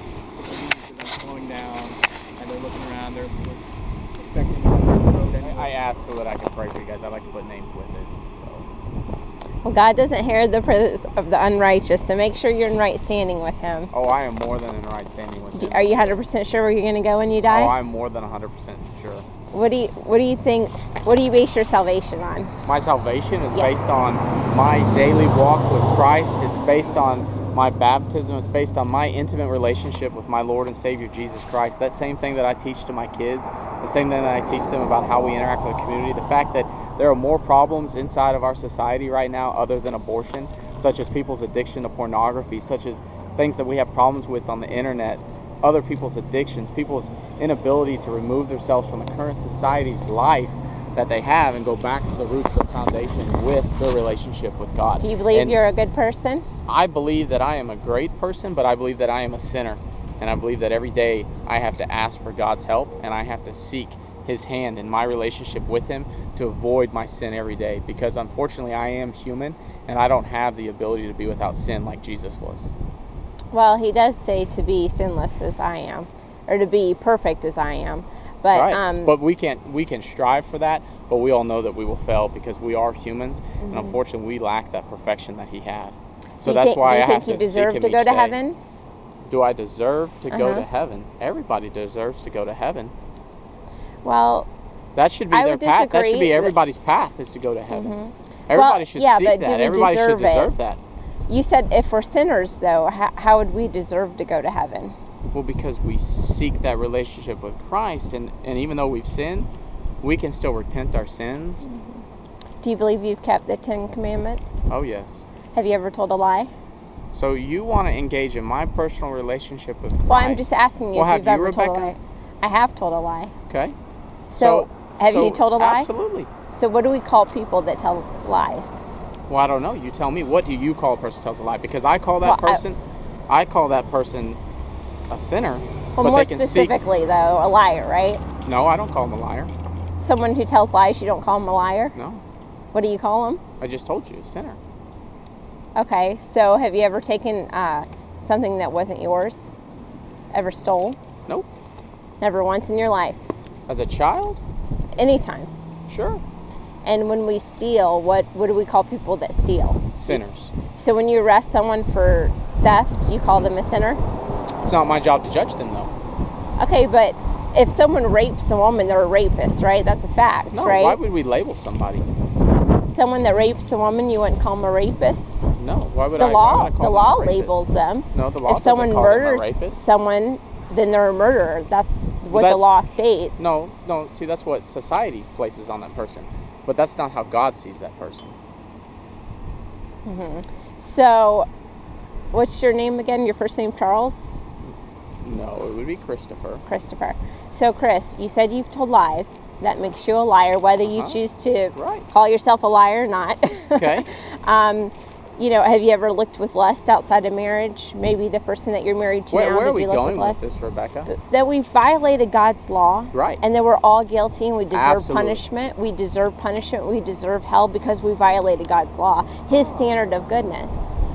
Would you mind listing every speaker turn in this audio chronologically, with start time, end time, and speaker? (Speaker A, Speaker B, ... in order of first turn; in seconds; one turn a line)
Speaker A: 0.4-3.6
Speaker A: 4.1-5.7
Speaker B: 5.4-8.7
Speaker C: 9.6-13.9
Speaker B: 13.9-16.2
Speaker C: 15.5-17.7
Speaker B: 17.5-19.2
Speaker C: 19.5-22.5
Speaker B: 22.6-55.6
Speaker C: 23.5-23.9
Speaker C: 55.0-56.4
Speaker B: 56.7-72.7
Speaker C: 73.5-79.2
Speaker B: 78.5-88.4
Speaker C: 83.6-84.0
Speaker C: 86.4-88.6
Speaker B: 89.2-92.9
Speaker C: 90.3-90.7
Speaker C: 94.0-94.5
Speaker B: 95.0-97.9
Speaker C: 95.3-96.6
Speaker C: 97.7-100.5
Speaker B: 98.5-100.8
Speaker C: 101.3-104.9
Speaker B: 105.3-109.5
Speaker B: 110.0-111.7
Speaker C: 111.6-112.0
Speaker C: 112.6-114.6
Speaker B: 114.7-115.2
Speaker C: 115.5-116.5
Speaker B: 117.1-121.9
Speaker C: 120.1-123.3
Speaker B: 123.5-123.7
Speaker C: 124.3-125.9
Speaker B: 124.4-126.3
Speaker C: 126.5-128.8
Speaker B: 129.3-134.4
Speaker C: 132.2-132.6
Speaker B: 135.1-136.7
Speaker C: 136.0-138.2
Speaker B: 138.4-139.5
Speaker C: 140.0-141.9
Speaker B: 141.9-142.2
Speaker C: 142.7-143.4
Speaker B: 143.6-144.6
Speaker C: 145.8-149.5
Speaker C: 150.3-151.0
Speaker C: 152.2-153.2
Speaker B: 153.7-154.4
Speaker C: 155.0-155.5
Speaker B: 155.9-156.2
Speaker C: 156.8-164.0
Speaker B: 160.0-160.5
Speaker B: 164.6-165.9
Speaker C: 166.6-171.0
Speaker B: 170.5-172.1
Speaker C: 172.9-175.5
Speaker B: 175.6-179.9
Speaker C: 176.2-183.5
Speaker B: 182.3-182.7
Speaker B: 183.4-188.3
Speaker C: 190.0-191.5
Speaker C: 192.3-194.4
Speaker B: 195.2-196.6
Speaker C: 196.7-210.5
Speaker B: 200.8-201.2
Speaker B: 201.7-202.1
Speaker B: 203.7-204.1
Speaker B: 209.3-211.1
Speaker C: 211.1-220.9
Speaker B: 213.1-213.4
Speaker B: 214.7-215.4
Speaker B: 219.5-220.0